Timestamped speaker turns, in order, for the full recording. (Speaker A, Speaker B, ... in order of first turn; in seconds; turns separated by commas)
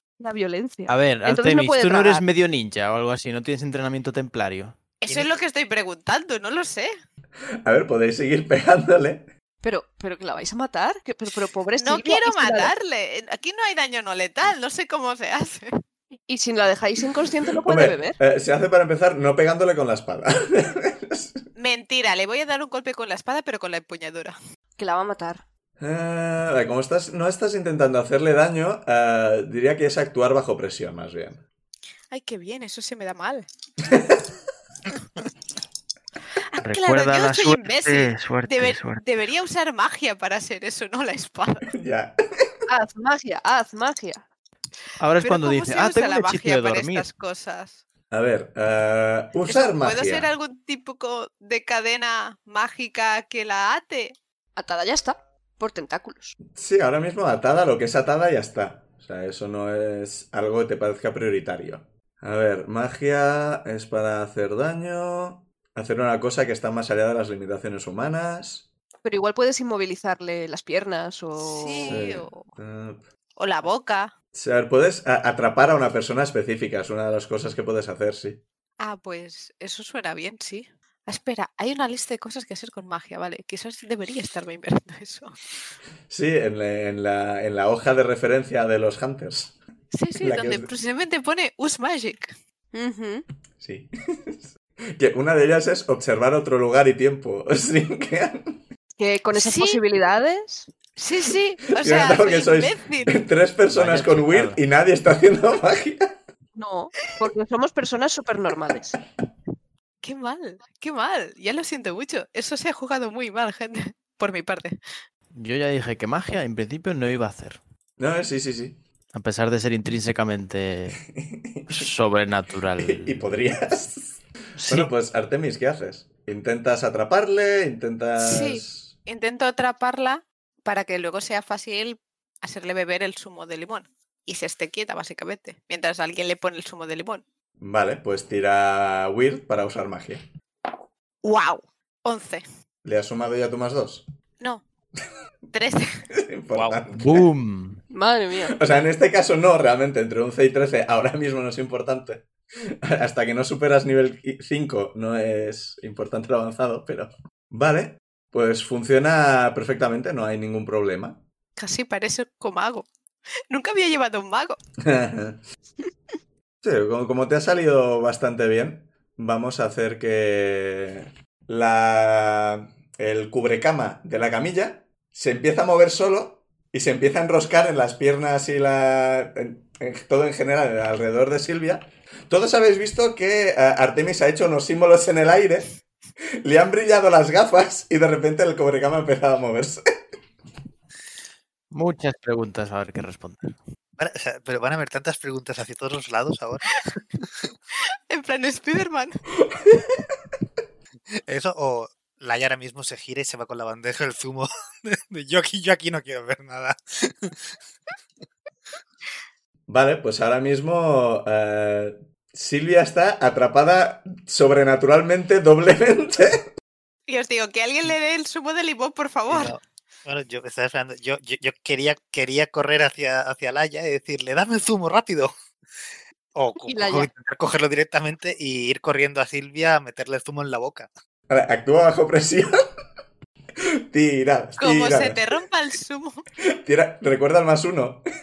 Speaker A: 0.2-2.2, Speaker B: 0.9-4.8, Speaker C: 5.0-6.9, Speaker D: 5.1-5.4, Speaker E: 7.7-9.3, Speaker A: 9.6-12.7, Speaker C: 11.8-15.7, Speaker A: 16.3-18.2, Speaker E: 17.6-21.4, Speaker C: 21.6-24.4, Speaker A: 24.8-25.4, Speaker E: 25.8-31.4, Speaker C: 32.1-33.5, Speaker E: 33.8-34.2, Speaker C: 36.5-41.7, Speaker B: 36.6-39.1, Speaker E: 41.7-42.5, Speaker A: 42.7-44.2, Speaker B: 45.0-47.1, Speaker C: 45.2-47.8, Speaker E: 48.1-50.3, Speaker C: 49.5-54.1, Speaker A: 54.6-56.4, Speaker E: 56.5-68.7, Speaker A: 69.0-72.0, Speaker C: 71.4-72.5, Speaker E: 71.9-73.0, Speaker C: 73.4-74.1, Speaker E: 74.3-78.4, Speaker C: 78.8-85.3, Speaker E: 86.1-89.6, Speaker C: 89.9-92.3, Speaker E: 90.2-90.7, Speaker A: 92.7-93.2, Speaker E: 93.6-98.6, Speaker A: 99.0-100.7, Speaker C: 99.3-99.8, Speaker C: 101.0-103.2, Speaker E: 101.8-106.1, Speaker B: 103.7-104.6, Speaker A: 106.5-109.0, Speaker C: 110.0-114.8, Speaker B: 115.3-117.6, Speaker E: 118.0-118.8, Speaker B: 119.1-121.0, Speaker E: 121.1-121.9, Speaker B: 121.7-123.2, Speaker E: 122.8-128.9, Speaker B: 124.6-124.9, Speaker C: 128.2-137.2, Speaker E: 137.6-140.3, Speaker C: 141.2-142.4, Speaker E: 142.8-144.0, Speaker C: 145.5-146.0, Speaker E: 146.1-147.3, Speaker D: 146.5-146.8, Speaker B: 146.9-147.8, Speaker A: 147.9-148.6, Speaker E: 148.4-161.2, Speaker C: 161.6-162.9, Speaker C: 163.5-164.6, Speaker E: 164.8-165.4, Speaker E: 166.6-185.7, Speaker E: 186.4-189.8, Speaker B: 191.7-193.6, Speaker D: 194.0-196.8, Speaker C: 198.1-199.2, Speaker D: 201.3-207.5, Speaker E: 209.7-216.5, Speaker C: 217.1-219.6, Speaker D: 219.3-225.3, Speaker D: 226.3-230.9, Speaker A: 226.7-227.1, Speaker E: 231.3-232.5, Speaker E: 233.9-235.2, Speaker C: 234.6-236.2, Speaker E: 236.6-238.0